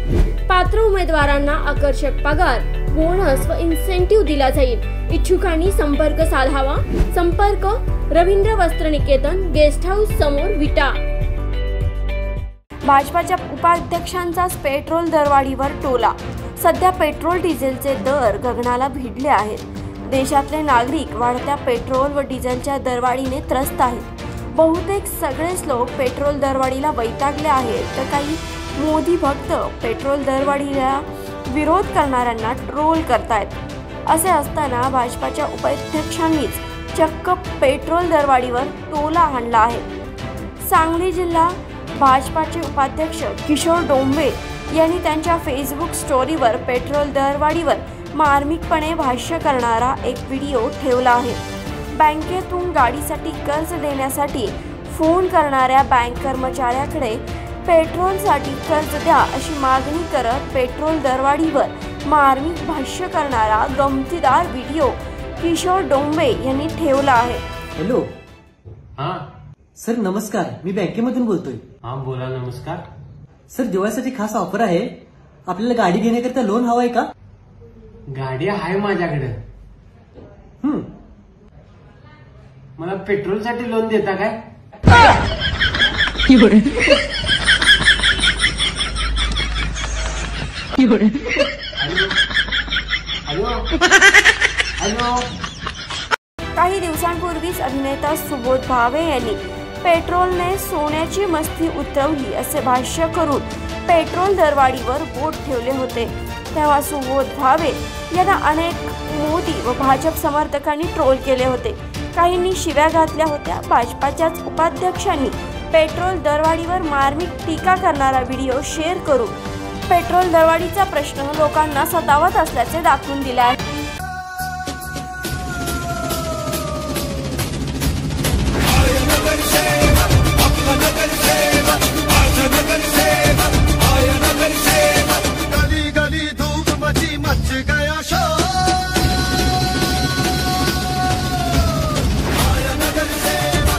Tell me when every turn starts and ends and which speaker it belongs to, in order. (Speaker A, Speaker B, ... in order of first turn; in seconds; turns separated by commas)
Speaker A: 0.5-11.0, Speaker A: 12.9-39.9, Speaker A: 40.6-51.4, Speaker A: 51.9-67.4, Speaker B: 67.8-68.1, Speaker C: 69.0-69.2, Speaker B: 69.8-71.6, Speaker C: 71.8-72.8, Speaker B: 73.5-74.9, Speaker B: 75.5-77.1, Speaker C: 78.1-79.4, Speaker B: 80.6-80.9, Speaker C: 82.8-84.4, Speaker C: 91.8-92.1, Speaker C: 93.3-93.7, Speaker C: 94.8-95.3, Speaker A: 96.5-119.3, Speaker A: 119.9-123.6